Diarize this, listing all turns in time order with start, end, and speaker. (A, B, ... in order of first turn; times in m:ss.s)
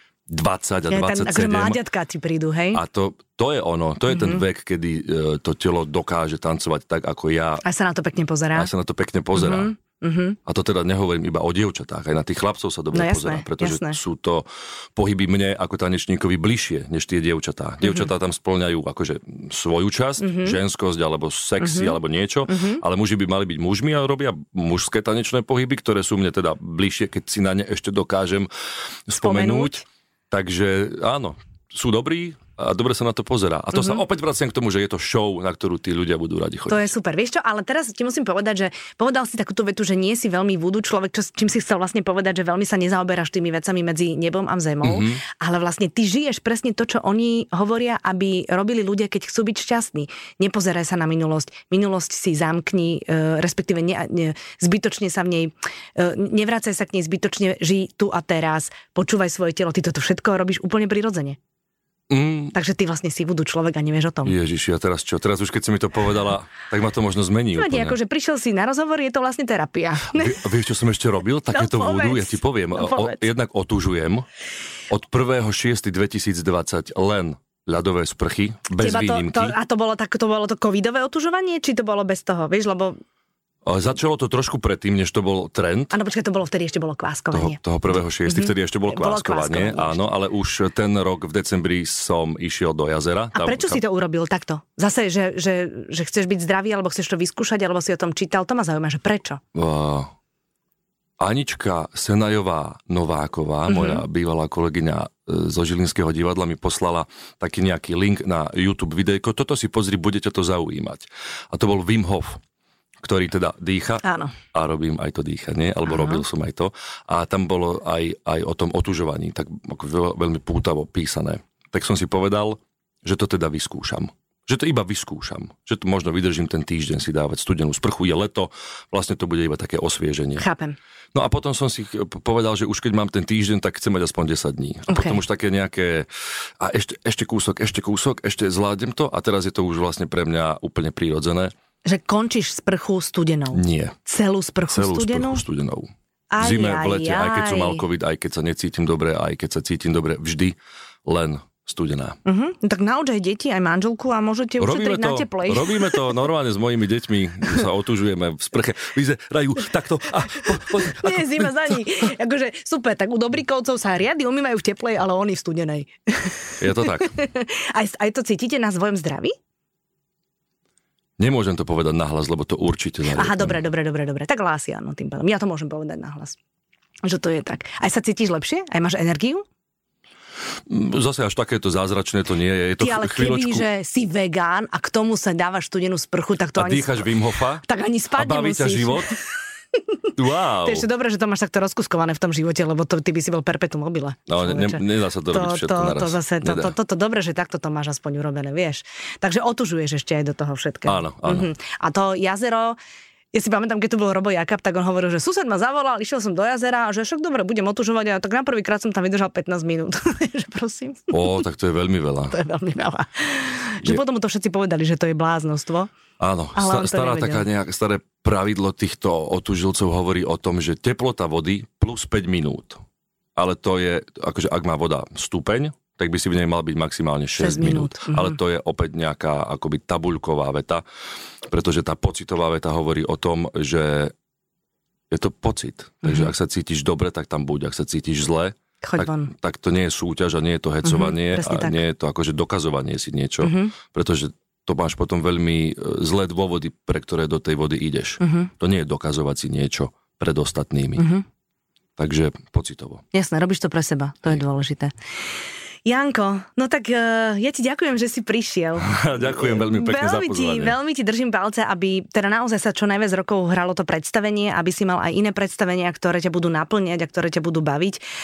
0:00.3-0:01.8 A
0:00.9-0:02.8 B
0:02.7-0:07.6 A
0:04.1-0:04.4 B
0:07.6-0:08.7 B
0:08.6-0:09.7 A
0:09.3-0:10.4 B
0:10.4-0:28.5 A
0:12.9-0:14.0 B
0:17.8-0:18.1 B
0:20.2-0:20.6 B
0:21.6-0:22.0 B
0:22.5-0:22.8 B
0:29.1-0:36.9 A
0:29.2-0:29.8 B
0:36.7-1:01.4 B
0:44.8-0:45.2 A
1:02.1-1:02.5 A
1:02.5-1:04.4 B
1:04.2-1:08.0 A
1:07.5-1:10.4 B
1:10.1-1:14.3 A
1:11.5-1:13.2 B
1:14.9-1:19.6 A
1:18.8-1:23.0 B
1:23.6-1:25.9 A
1:25.9-1:27.6 B
1:27.3-1:33.8 A
1:28.3-1:30.0 B
1:33.4-1:39.4 B
1:39.6-1:40.1 A
1:41.2-1:52.4 A
1:43.7-1:44.0 B
1:53.0-2:10.4 A
1:54.0-1:54.4 B
1:55.9-1:56.2 B
2:10.4-2:10.8 B
2:11.1-2:16.1 A
2:14.9-2:15.2 B
2:16.6-2:21.5 A
2:21.8-2:25.4 B
2:23.5-2:24.0 A
2:24.7-2:25.9 A
2:26.3-2:27.8 B
2:26.4-2:32.2 A
2:32.2-2:36.1 B
2:34.6-2:41.8 A
2:40.6-2:49.4 B
2:46.6-2:47.2 A
2:51.2-2:53.6 A
2:53.1-2:56.4 B
2:57.0-2:59.4 B
3:00.7-3:03.6 A
3:02.8-3:07.1 B
3:06.6-3:07.6 A
3:07.6-3:09.2 B
3:08.2-3:09.1 A
3:10.2-3:10.8 A
3:10.6-3:22.8 B
3:14.3-3:16.7 A
3:20.9-3:21.5 A
3:23.3-3:31.4 B
3:31.1-3:32.4 A
3:32.3-3:35.9 B
3:36.2-3:42.8 A
3:36.6-3:37.5 B
3:43.4-3:50.8 A
3:47.4-3:48.4 B
3:51.4-3:54.1 A
3:55.1-4:11.1 A
3:56.0-3:56.3 B
3:58.8-3:59.3 B
4:00.8-4:01.8 B
4:03.4-4:03.7 B
4:08.2-4:08.5 B
4:11.0-4:11.2 B
4:12.0-4:13.0 A
4:13.1-4:14.9 B
4:15.9-4:28.0 B
4:18.8-4:20.8 A